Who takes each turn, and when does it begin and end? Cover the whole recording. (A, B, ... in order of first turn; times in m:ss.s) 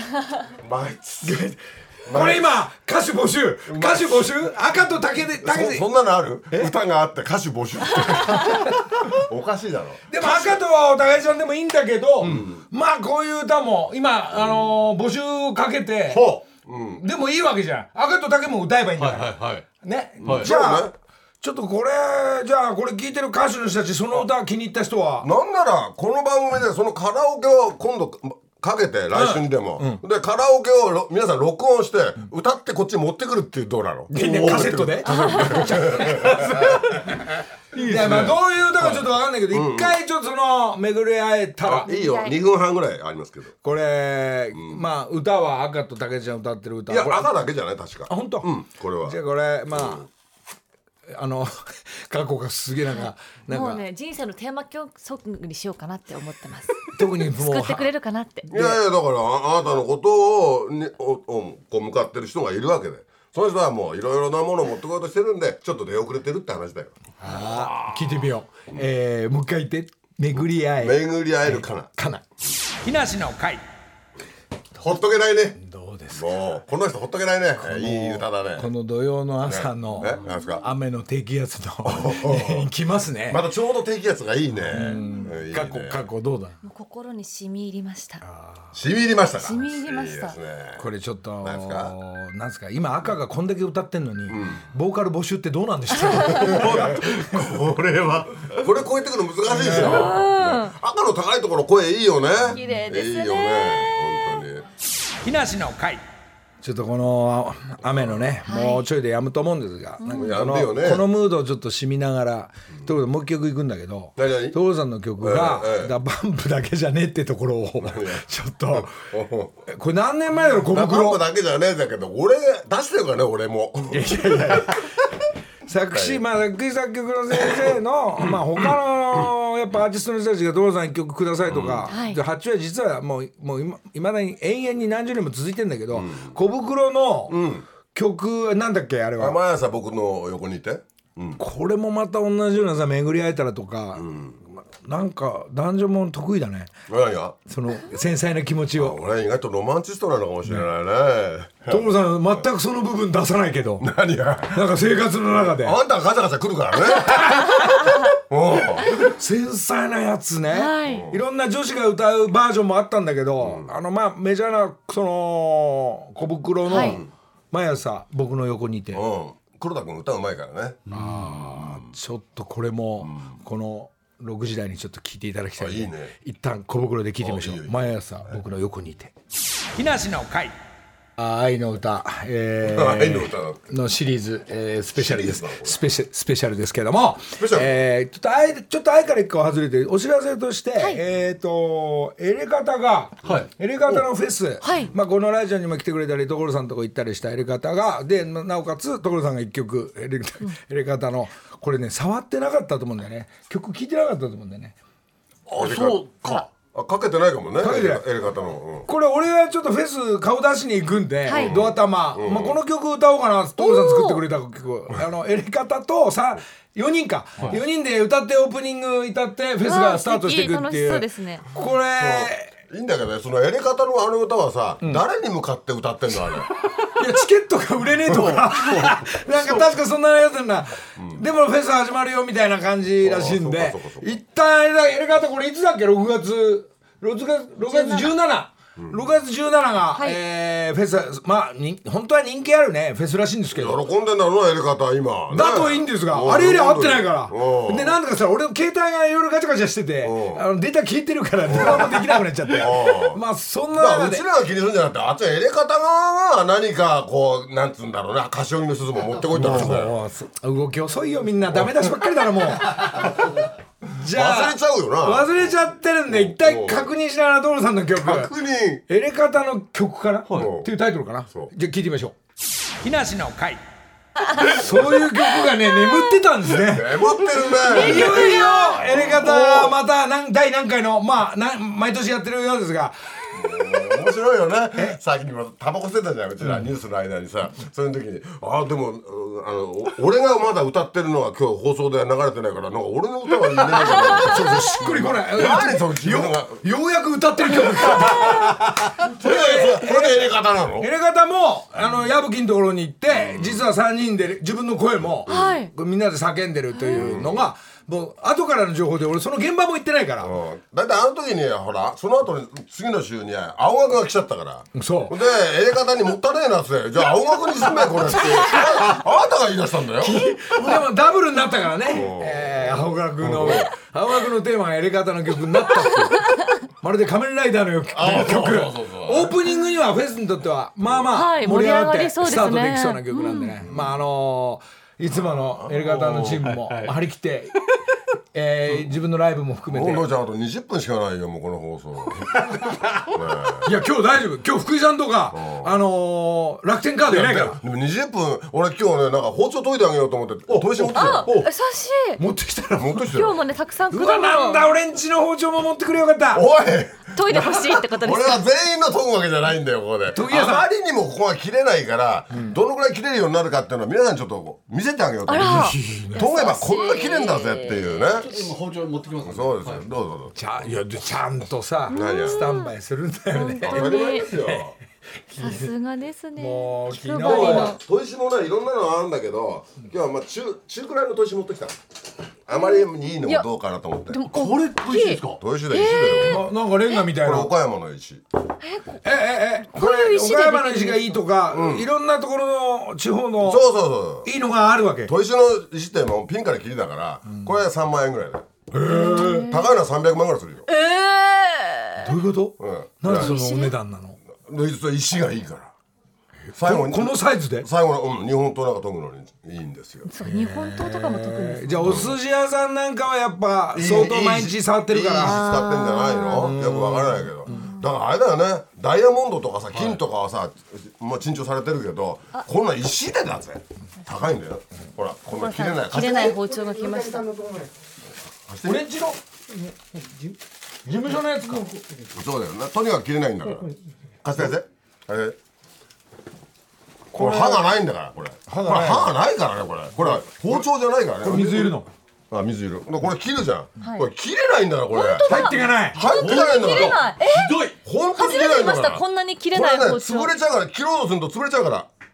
0:00.5-0:02.5 A
0:02.1-0:05.8 B
0:03.7-0:04.4 A
0:05.4-0:10.6 A
0:08.3-0:09.1 B
0:10.1-0:16.2 B
0:12.2-0:12.5 C
0:12.2-0:12.6 A
0:14.3-0:14.7 A
0:16.1-0:16.4 C
0:16.6-0:17.0 A
0:17.0-0:25.3 B
0:19.0-0:19.6 C
0:20.2-0:21.0 A
0:20.2-0:20.5 C
0:25.2-0:37.0 A
0:29.1-0:30.0 B
0:34.1-0:41.9 B
0:35.1-0:35.6 D
0:37.8-0:40.0 A
0:37.9-0:38.3 C
0:41.6-0:43.6 A
0:41.9-0:42.4 D
0:43.6-0:47.3 B
0:44.5-0:44.8 A
0:46.9-0:49.2 A
0:48.1-0:48.5 B
0:49.0-0:50.1 B
0:49.7-0:50.0 A
0:51.1-0:53.8 B
0:52.9-0:58.5 D
0:56.9-0:57.9 B
0:58.5-0:58.8 B
0:58.5-1:08.8 A
1:07.2-1:12.2 B
1:10.8-1:11.9 A
1:12.8-1:13.6 B
1:14.8-1:15.6 A
1:15.6-1:16.4 B
1:16.1-1:18.7 A
1:17.6-1:23.4 B
1:19.4-1:20.6 A
1:20.2-1:20.6 D
1:21.8-1:22.7 A
1:23.3-1:26.1 A
1:24.7-1:26.6 B
1:26.6-1:28.2 D
1:28.2-1:28.6 B
1:28.7-1:30.8 A
1:29.4-1:30.4 D
1:30.8-1:37.1 B
1:31.4-1:31.9 A
1:34.3-1:34.6 A
1:36.0-1:36.5 D
1:36.2-1:44.7 A
1:36.6-1:38.5 C
1:39.5-1:40.2 B
1:39.7-1:40.7 D
1:42.4-1:44.2 D
1:45.2-1:46.0 B
1:46.6-1:58.9 B
1:48.5-1:48.8 D
1:50.0-1:50.4 D
1:50.1-1:51.1 A
1:54.2-1:54.6 A
1:55.2-1:55.9 A
1:57.8-1:59.5 A
1:59.7-2:01.2 B
2:00.6-2:04.8 A
2:03.9-2:04.9 B
2:05.7-2:17.4 B
2:05.9-2:06.2 A
2:11.5-2:11.9 A
2:11.9-2:12.2 D
2:15.9-2:16.4 A
2:17.3-2:17.7 A
2:17.9-2:19.4 B
2:19.2-2:21.4 A
2:21.4-2:24.1 B
2:24.0-2:24.4 A
2:24.6-2:26.7 B
2:26.9-2:27.4 A
2:27.5-2:29.0 B
2:28.8-2:31.9 A
2:31.7-2:33.9 B
2:33.8-2:34.8 A
2:34.5-2:35.8 B
2:35.4-2:37.7 A
2:37.1-2:38.0 B
2:37.6-2:37.9 D
2:38.2-2:39.0 A
2:38.9-2:49.0 B
2:40.5-2:41.1 D
2:40.8-2:41.2 A
2:43.4-2:43.7 A
2:46.7-2:47.0 D
2:46.8-2:47.1 A
2:48.9-2:52.0 A
2:50.9-2:51.2 C
2:50.9-2:59.1 B
2:53.0-2:53.4 A
2:55.6-2:56.1 A
2:57.2-2:57.9 A
2:59.8-3:00.6 B
3:01.2-3:24.8 B
3:02.6-3:03.6 A
3:04.9-3:05.8 A
3:07.4-3:07.8 A
3:13.2-3:14.0 C
3:14.6-3:14.9 D
3:25.5-3:28.9 A
3:25.6-3:26.4 C
3:27.6-3:28.1 B
3:28.9-3:42.6 B
3:31.3-3:31.6 D
3:31.3-3:32.6 A
3:33.6-3:34.2 D
3:39.6-3:41.4 D
3:41.9-3:46.5 A
3:46.8-4:03.8 B
3:48.1-3:49.5 A
3:51.0-3:51.2 A
3:53.0-3:54.2 A
3:57.7-3:58.1 D
3:58.8-3:59.0 A
4:03.5-4:08.0 A
4:05.3-4:14.2 B
4:10.0-4:10.5 A
4:11.5-4:13.2 A
4:13.7-4:20.0 A
4:19.3-4:23.4 B
4:22.8-4:23.1 A
4:23.9-4:28.3 B
4:24.1-4:25.5 A
4:26.1-4:26.9 A
4:28.0-4:28.8 A
4:28.9-4:32.2 B
4:30.3-4:30.5 C
4:30.3-4:30.7 A
4:32.8-4:33.6 B
4:34.2-4:34.5 D
4:34.3-4:43.0 B
4:34.6-4:34.9 A
4:36.5-4:39.7 A
4:37.5-4:38.9 D
4:43.3-4:56.6 A
4:53.9-4:54.2 D
4:54.2-5:10.3 B
4:57.8-4:58.5 A
4:59.0-5:00.9 A
5:03.1-5:03.7 A
5:05.3-5:05.7 D
5:05.3-5:05.6 A
5:06.7-5:07.2 D
5:06.9-5:07.5 A
5:10.2-5:20.4 A
5:14.8-5:15.2 B
5:20.0-5:37.6 B
5:21.9-5:23.7 A
5:27.9-5:29.4 A
5:31.1-5:33.6 D
5:33.6-5:34.0 A
5:35.2-5:36.4 A
5:36.1-5:37.0 C
5:38.3-5:40.0 B
5:39.7-5:42.3 A
5:42.3-5:43.0 B
5:43.0-5:43.7 A
5:43.6-5:47.6 B
5:45.3-5:45.8 A
5:47.1-5:51.3 A
5:50.5-5:51.5 C
5:50.8-5:52.2 D
5:52.2-5:53.1 B
5:52.8-5:53.4 A
5:53.1-5:54.7 D
5:53.9-5:56.4 B
5:56.3-6:08.3 A
5:57.1-5:58.4 D
6:00.1-6:00.7 B
6:05.3-6:08.2 D
6:05.4-6:06.2 B
6:08.1-6:09.8 C
6:09.2-6:10.4 A
6:10.4-6:14.6 B
6:11.9-6:12.7 D
6:11.9-6:12.5 A
6:13.3-6:14.4 D
6:13.6-6:14.8 A
6:15.3-6:15.7 B
6:15.4-6:17.8 D
6:16.4-6:17.8 B
6:17.2-6:21.8 A
6:22.5-6:24.2 A
6:22.5-6:23.5 D
6:24.1-6:26.4 D
6:24.2-6:25.4 C
6:25.4-6:28.2 A
6:26.2-6:27.5 B
6:28.6-6:29.0 D
6:29.0-6:33.6 B
6:29.6-6:31.2 D
6:31.5-6:31.9 A
6:33.4-6:34.3 A
6:34.2-6:35.1 B
6:35.1-6:40.7 A
6:38.7-6:39.4 B
6:38.9-6:39.7 D
6:40.7-6:42.1 D
6:42.0-6:44.2 B
6:42.6-6:43.4 A
6:43.1-6:43.8 D
6:44.4-6:45.7 A
6:46.6-6:47.7 B
6:46.6-6:50.1 A
6:50.1-6:52.0 D
6:50.2-6:55.4 B
6:51.8-6:52.2 A
6:53.7-7:06.4 A
6:55.2-6:56.6 D
6:56.4-6:57.7 B
6:57.5-6:57.8 D
7:05.3-7:07.4 D
7:08.5-7:08.9 A
7:08.6-7:09.2 B
7:10.9-7:11.7 B
7:12.1-7:15.4 A
7:17.1-7:17.7 B
7:17.1-7:21.8 A
7:18.5-7:19.1 B
7:21.2-7:21.9 B
7:22.3-7:27.1 A
7:23.8-7:24.1 D
7:24.9-7:30.3 D
7:25.3-7:26.0 B
7:26.0-7:27.8 C
7:27.8-7:31.9 A